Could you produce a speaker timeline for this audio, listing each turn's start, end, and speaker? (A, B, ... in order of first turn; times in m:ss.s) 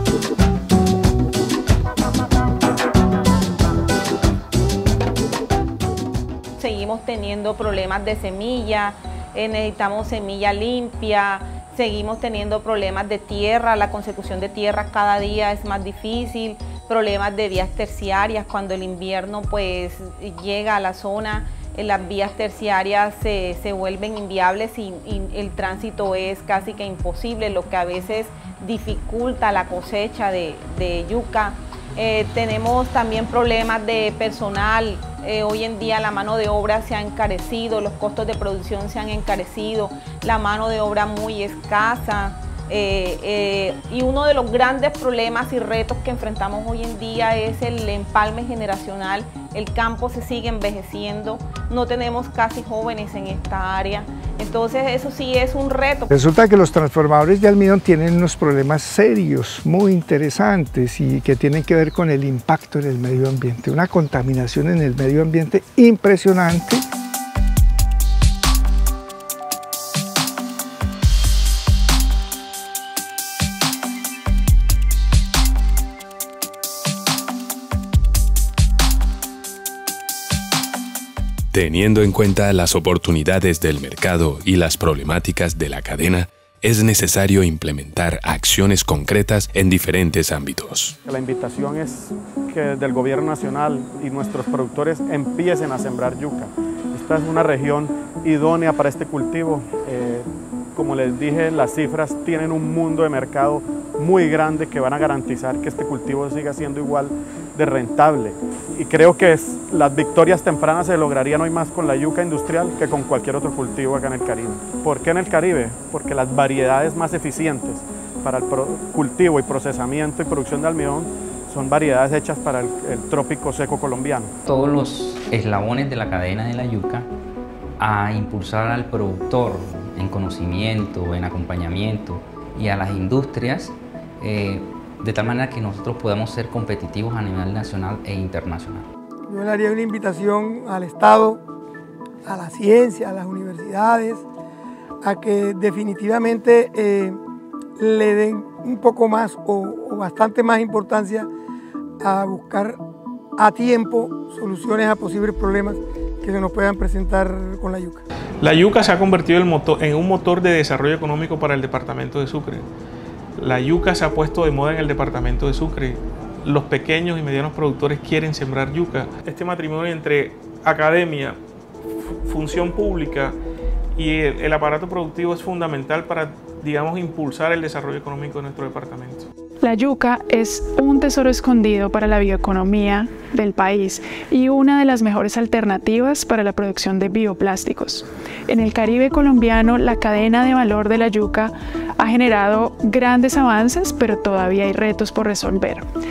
0:06.6-0:56.1 A
0:56.2-1:06.8 B
1:21.5-1:31.0 C
1:31.1-2:04.3 D
2:04.5-2:07.1 E
2:07.8-2:18.8 E
2:19.3-2:21.4 F
2:22.2-2:24.2 F
2:25.0-2:27.2 F
2:27.8-2:31.3 F
2:32.0-2:32.8 F
2:33.4-2:38.0 F
2:38.4-2:42.7 G
2:43.4-2:51.4 G
2:52.2-2:53.4 G
2:54.0-2:59.3 G
2:59.6-3:15.8 H